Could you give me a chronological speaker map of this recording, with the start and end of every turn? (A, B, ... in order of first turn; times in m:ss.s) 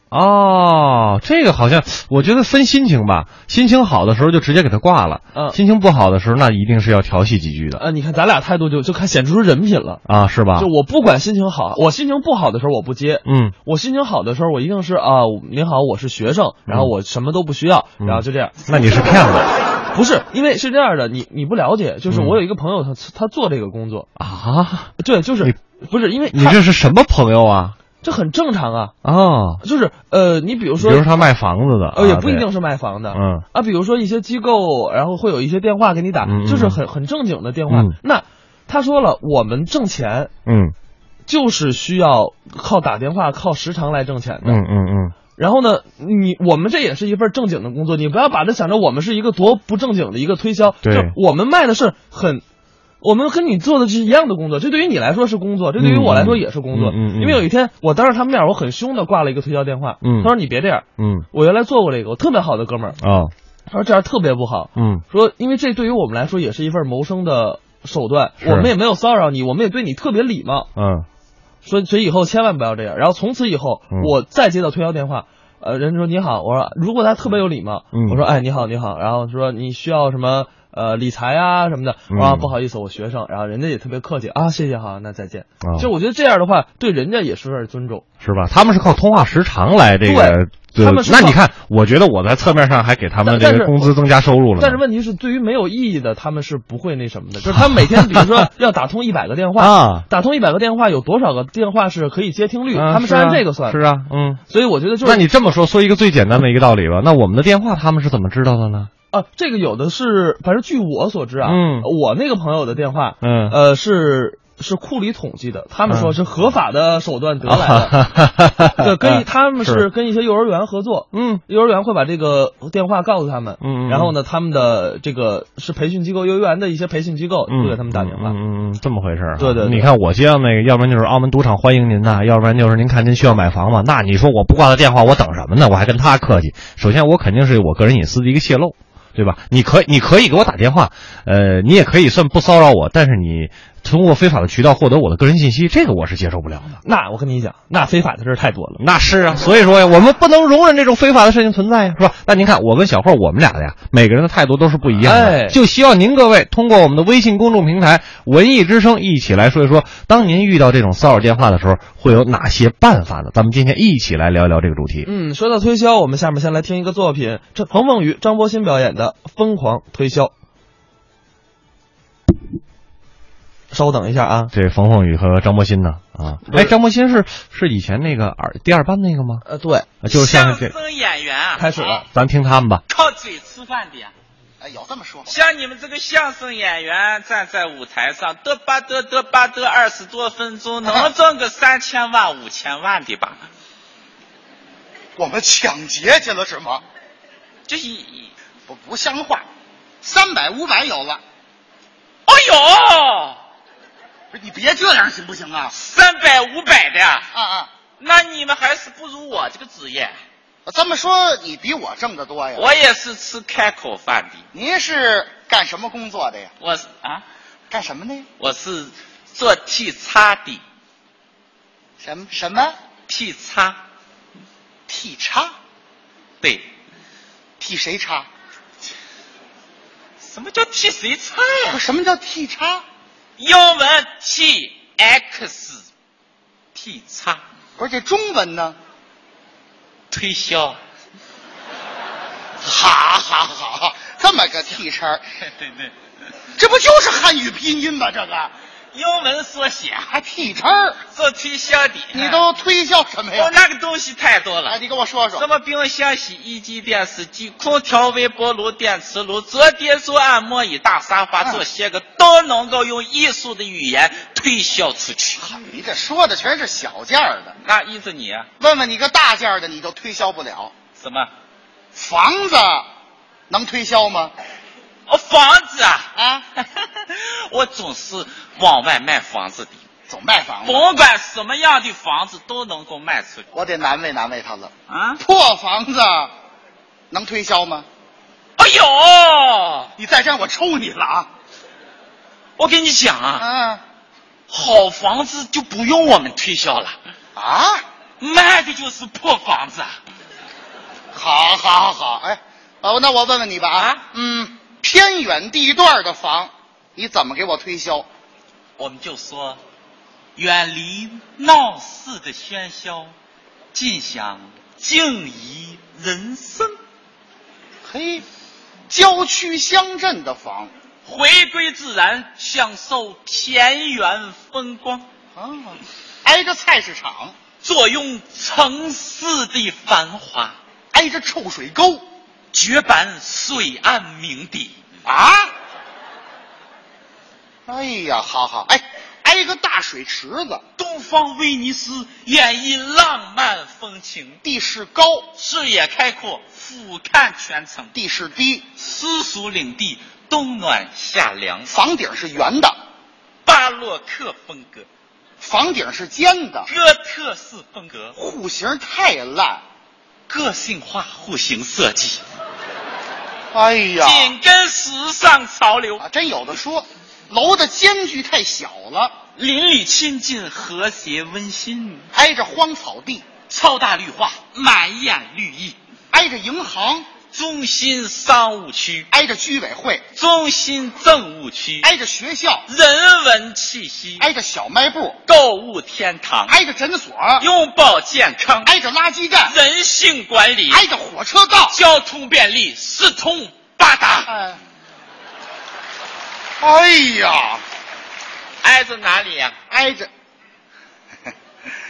0:00.1-0:07.8 A
0:07.8-0:10.0 B
0:10.0-0:10.7 A
0:10.5-0:19.0 B
0:13.2-0:13.5 A
0:18.0-0:19.5 A
0:19.9-0:24.1 B
0:22.1-0:22.4 A
0:24.2-0:25.6 A
0:25.0-0:26.6 B
0:26.3-0:27.8 A
0:28.0-0:28.9 B
0:29.0-0:29.6 A
0:29.6-0:31.2 B
0:30.8-0:32.5 A
0:31.9-0:40.3 B
0:33.1-0:33.4 A
0:36.2-0:36.8 A
0:37.7-0:38.0 A
0:40.4-0:40.7 A
0:41.3-0:44.6 B
0:44.4-0:45.1 A
0:45.4-0:52.4 B
0:50.8-0:51.1 A
0:53.0-1:03.0 B
0:55.8-0:57.4 A
1:00.0-1:00.3 A
1:01.0-1:01.2 A
1:03.0-1:03.3 A
1:03.7-1:10.7 B
1:04.7-1:05.0 A
1:08.4-1:08.7 A
1:10.8-1:11.1 A
1:11.6-1:28.0 B
1:17.9-1:18.2 A
1:22.1-1:22.5 A
1:25.6-1:25.9 A
1:28.2-1:34.8 A
1:30.0-1:31.4 B
1:33.2-1:33.9 B
1:34.6-1:43.8 B
1:37.5-1:38.4 A
1:39.6-1:40.0 A
1:42.7-1:44.4 A
1:44.5-1:45.2 B
1:45.0-1:48.9 A
1:49.1-1:58.0 B
1:51.4-1:51.9 A
1:53.2-1:53.6 A
1:55.9-1:56.1 A
1:57.4-1:59.8 A
1:58.8-2:08.4 B
2:01.1-2:01.4 A
2:03.6-2:04.1 A
2:07.5-2:26.8 A
2:09.4-2:09.9 B
2:26.8-2:28.8 B
2:28.8-2:45.1 A
2:35.0-2:35.6 B
2:45.0-2:50.3 B
2:53.7-2:54.5 B
2:54.5-2:59.4 A
2:56.4-2:56.7 B
2:59.4-2:59.9 B
3:00.0-3:00.7 A
3:00.1-3:01.9 C
3:01.6-3:02.0 B
3:02.1-3:02.8 A
3:02.9-3:04.1 C
3:04.6-3:05.3 D
3:05.3-3:13.4 C
3:15.2-3:16.8 D
3:17.7-3:18.3 C
3:18.7-3:19.4 D
3:20.0-3:21.2 D
3:22.3-3:23.4 C
3:24.3-3:25.7 D
3:25.7-3:27.3 C
3:27.3-3:27.7 D
3:28.0-3:30.2 C
3:30.6-3:32.7 D
3:32.6-3:34.4 C
3:34.5-3:36.5 D
3:36.6-3:37.2 C
3:37.7-3:38.3 D
3:38.4-3:40.6 C
3:42.0-3:42.8 D
3:43.1-3:43.8 C
3:44.9-3:45.5 D
3:47.6-3:48.3 D
3:50.2-3:51.8 C
3:51.7-3:52.8 D
3:53.4-3:55.8 C
3:56.7-3:57.4 C
3:57.8-3:58.8 D
4:00.1-4:00.8 C
4:02.6-4:05.2 D
4:05.4-4:05.9 C
4:06.6-4:08.5 D
4:08.9-4:10.1 C
4:10.1-4:11.0 D
4:11.1-4:12.4 C
4:12.1-4:13.5 D
4:13.3-4:14.8 C
4:14.7-4:15.4 D
4:15.4-4:25.5 C
4:25.4-4:27.5 D
4:27.6-4:28.5 C
4:28.6-4:30.7 D
4:31.0-4:31.3 C
4:31.9-4:32.8 D
4:33.5-4:34.3 D
4:35.1-4:39.8 C
4:36.2-4:36.4 D
4:40.1-4:40.8 D
4:40.6-4:43.4 C
4:43.5-4:46.3 D
4:44.9-4:45.2 C
4:47.1-4:47.8 D
4:48.6-4:49.9 C
4:50.0-4:51.3 D
4:52.6-4:53.4 C
4:53.4-4:53.8 D
4:54.5-4:56.9 C
4:57.4-4:57.8 D
4:58.2-5:00.0 C
5:01.1-5:08.0 D
5:03.7-5:04.0 C
5:08.8-5:09.6 C
5:10.4-5:13.1 C
5:13.7-5:16.7 C
5:17.8-5:18.2 D
5:18.9-5:20.7 D
5:21.0-5:25.0 C
5:25.4-5:27.3 D
5:27.6-5:30.6 C
5:30.9-5:32.0 D
5:32.5-5:34.8 C
5:35.0-5:35.5 D
5:37.7-5:40.6 D
5:40.8-5:44.4 C
5:44.4-5:45.3 D
5:45.4-5:47.9 C
5:47.9-5:48.6 D
5:48.8-5:51.7 C
5:51.7-5:52.7 D
5:53.4-5:54.8 C
5:55.4-5:56.7 D
5:56.7-5:58.2 C
5:58.2-5:59.6 D
6:00.3-6:02.2 C
6:03.5-6:04.3 D
6:04.0-6:06.0 C
6:06.0-6:09.1 D
6:09.4-6:12.0 C
6:12.1-6:13.3 D
6:13.5-6:15.8 C
6:16.1-6:17.1 D
6:17.3-6:19.1 C
6:19.1-6:20.0 D
6:20.2-6:21.9 C
6:21.8-6:22.6 D
6:22.7-6:24.2 C
6:24.2-6:25.2 D
6:25.3-6:26.5 C
6:26.5-6:27.4 D
6:27.4-6:28.7 C
6:28.6-6:29.5 D
6:29.4-6:30.8 C
6:30.7-6:31.8 D
6:31.7-6:34.3 C
6:34.3-6:34.6 D
6:36.6-6:37.6 D
6:38.6-6:39.6 C
6:39.7-6:40.1 D